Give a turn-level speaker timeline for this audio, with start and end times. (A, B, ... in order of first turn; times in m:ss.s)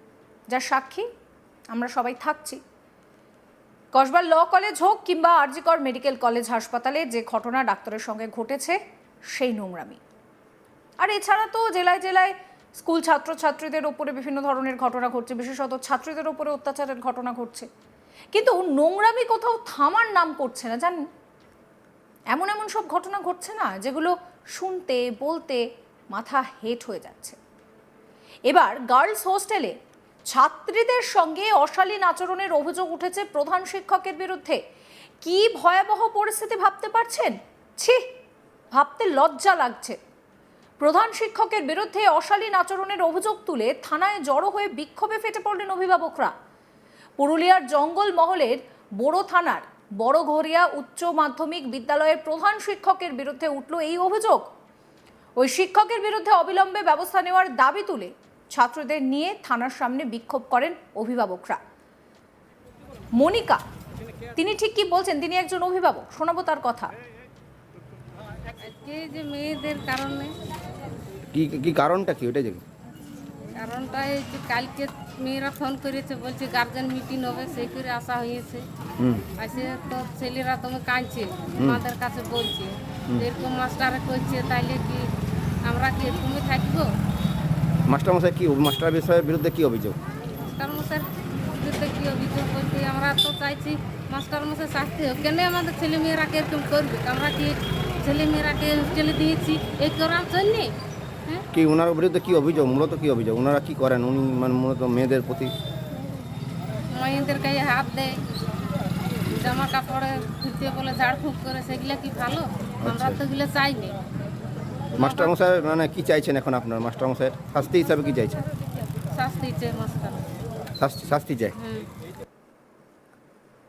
0:00.5-0:01.1 A
0:01.7-0:02.6 A
0:03.9-0:08.8 A
0:09.3-0:10.0 A
0:11.0-0:17.7 A
0:18.3-0:21.1 A
0:22.3-0:27.4 A
0:28.5-0:29.8 A
0:30.3-0:34.6 A
0:35.2-0:38.0 A
0:38.7-0:40.0 A
0:40.8-0:46.3 A
0:47.2-0:54.5 A
0:55.4-1:01.6 A
1:03.2-1:03.6 A
1:04.4-1:06.9 A
1:08.6-1:10.3 B
1:11.3-1:12.6 C
1:13.6-1:18.7 B
1:19.0-1:19.2 C
1:19.4-1:25.1 B
1:25.6-1:26.9 B
1:27.9-1:30.0 C
1:30.4-1:40.7 B
1:41.5-1:45.5 C
1:46.9-1:48.2 B
1:49.3-1:54.0 B
1:52.8-1:53.2 C
1:55.0-1:58.4 C
1:55.0-1:55.3 B
1:59.1-2:00.2 B
2:00.8-2:01.6 C
2:01.6-2:01.9 B